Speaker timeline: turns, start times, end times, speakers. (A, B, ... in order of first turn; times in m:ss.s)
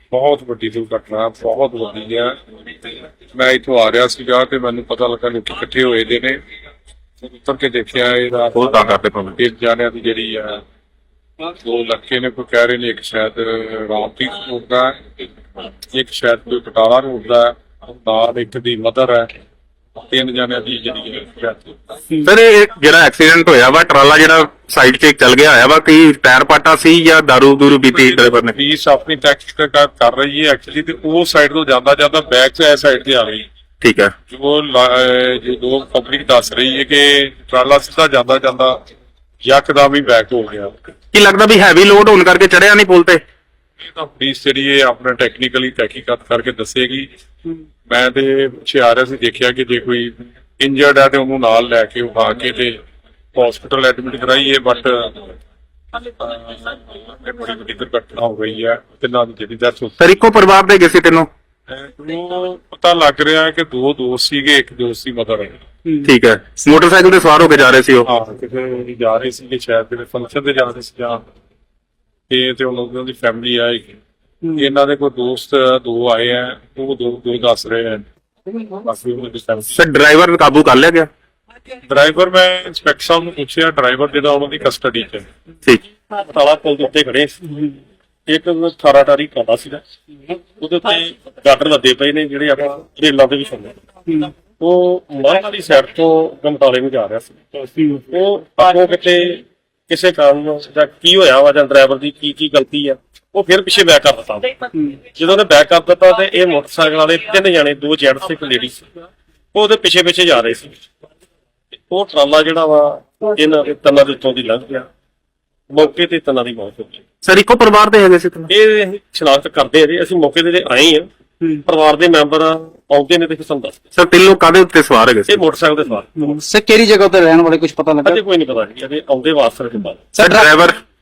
0:00.1-0:02.4 A
0:03.3-0:06.4 A
0:07.2-0:10.6 A
0:08.6-0:09.4 B
0:11.5-0:15.2 A
0:15.9-0:19.3 A
0:20.1-0:21.8 A
0:22.2-0:28.6 B
0:27.9-0:33.5 A
0:33.8-0:34.1 B
0:34.3-0:38.8 A
0:39.4-0:40.7 A
0:41.1-0:43.2 B
0:43.8-0:47.1 A
0:47.9-0:52.8 A
0:53.4-0:55.4 A
0:56.0-1:00.0 A
1:00.0-1:01.3 B
1:01.7-1:05.6 A
1:06.0-1:08.1 B
1:08.0-1:11.2 A
1:12.3-1:14.0 A
1:14.5-1:18.0 A
1:18.7-1:19.8 A
1:19.7-1:21.1 B
1:21.8-1:25.3 A
1:26.1-1:27.8 C
1:28.3-1:29.8 C
1:30.6-1:33.8 C
1:34.6-1:48.9 C
1:37.8-1:38.0 D
1:49.5-1:50.8 C
1:51.9-1:54.9 C
1:55.7-1:57.0 C
1:57.2-1:58.5 B
1:58.5-2:01.1 C
2:01.6-2:03.8 C
2:04.0-2:05.4 B
2:05.3-2:06.4 C
2:06.2-2:08.2 D
2:08.0-2:10.1 C
2:10.1-2:10.5 D
2:10.2-2:10.8 B